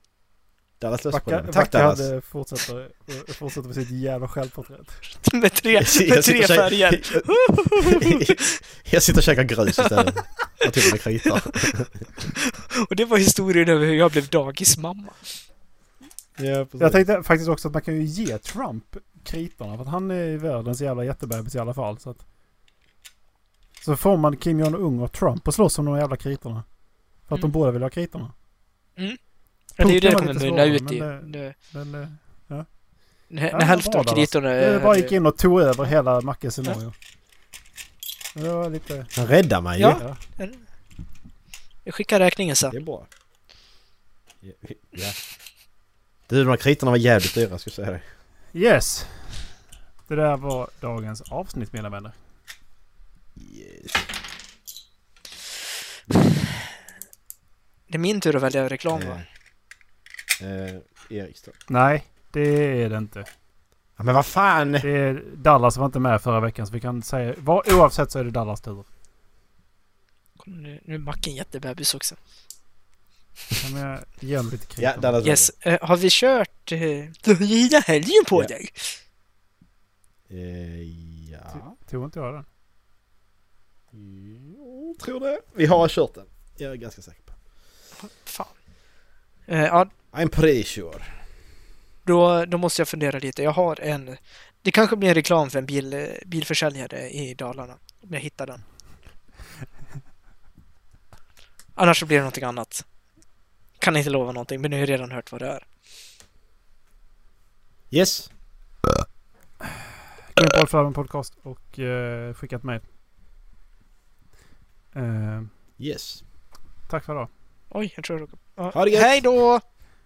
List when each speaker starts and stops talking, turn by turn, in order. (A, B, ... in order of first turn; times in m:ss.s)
0:00.8-0:02.0 A
0:01.1-0:05.1 B
0:05.2-0:08.6 C
0:05.8-0:12.2 A
0:09.8-0:10.1 C
0:10.6-0:11.3 C
0:12.4-0:15.3 C
0:16.4-0:17.0 A
0:16.8-0:22.2 B
0:23.8-0:26.6 B
0:27.3-0:28.3 B
0:29.8-0:31.5 C
0:29.8-0:32.6 B
0:33.3-0:35.1 C
0:33.5-0:36.9 B
0:38.3-0:39.1 B
0:39.1-0:40.0 A
0:39.8-0:40.6 C
0:39.8-0:40.2 B
0:41.8-0:42.7 C
0:42.7-0:43.1 A
0:44.4-0:45.2 A
0:46.3-0:48.0 A
0:48.5-0:49.1 B
0:50.1-0:52.1 B
0:53.4-0:54.1 A
0:57.9-0:59.2 C
0:58.9-0:59.2 A
1:00.4-1:01.6 A
1:01.7-1:03.3 B
1:04.0-1:04.9 A
1:04.8-1:08.8 B
1:10.4-1:12.2 C
1:13.6-1:15.2 B
1:14.8-1:15.5 A
1:15.2-1:19.0 C
1:20.3-1:21.7 A
1:21.5-1:22.4 B
1:23.9-1:27.3 A
1:28.0-1:28.5 C
1:29.5-1:29.9 C
1:30.1-1:31.0 A
1:32.0-1:38.6 C
1:41.8-1:42.8 C
1:43.8-1:45.6 C
1:47.9-1:48.3 A
1:50.3-1:52.8 B
1:54.9-1:55.5 B
1:55.8-1:56.2 A
1:56.9-1:57.3 B
1:57.7-1:59.6 C
1:58.7-1:59.2 A